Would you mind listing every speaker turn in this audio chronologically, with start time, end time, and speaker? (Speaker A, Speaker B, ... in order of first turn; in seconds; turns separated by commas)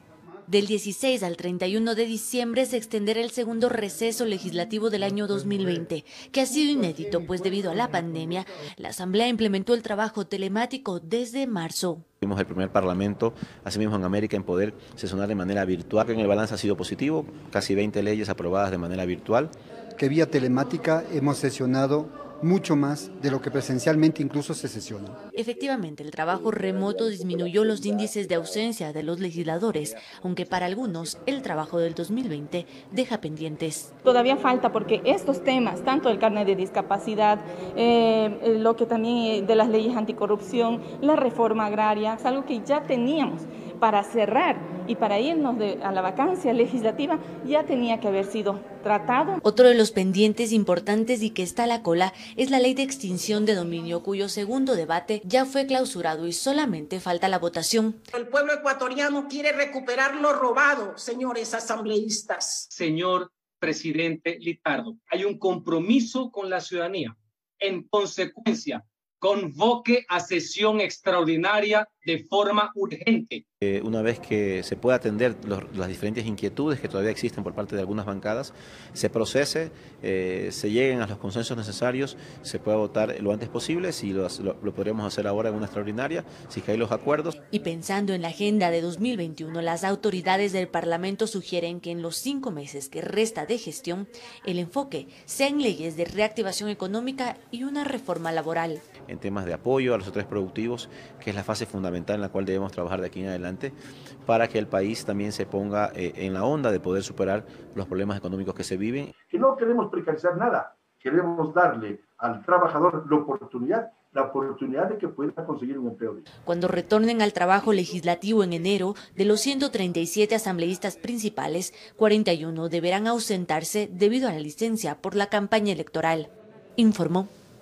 Speaker A: 0.5-12.0, Speaker B: 12.2-19.5, Speaker C: 20.0-25.2, Speaker A: 25.3-33.9, Speaker D: 34.0-49.4, Speaker A: 49.4-58.0, Speaker E: 58.1-62.7, Speaker F: 62.7-73.4, Speaker B: 73.6-87.4, Speaker A: 87.5-98.8, Speaker B: 99.1-109.1, Speaker G: 109.2-116.2, Speaker A: 116.5-127.3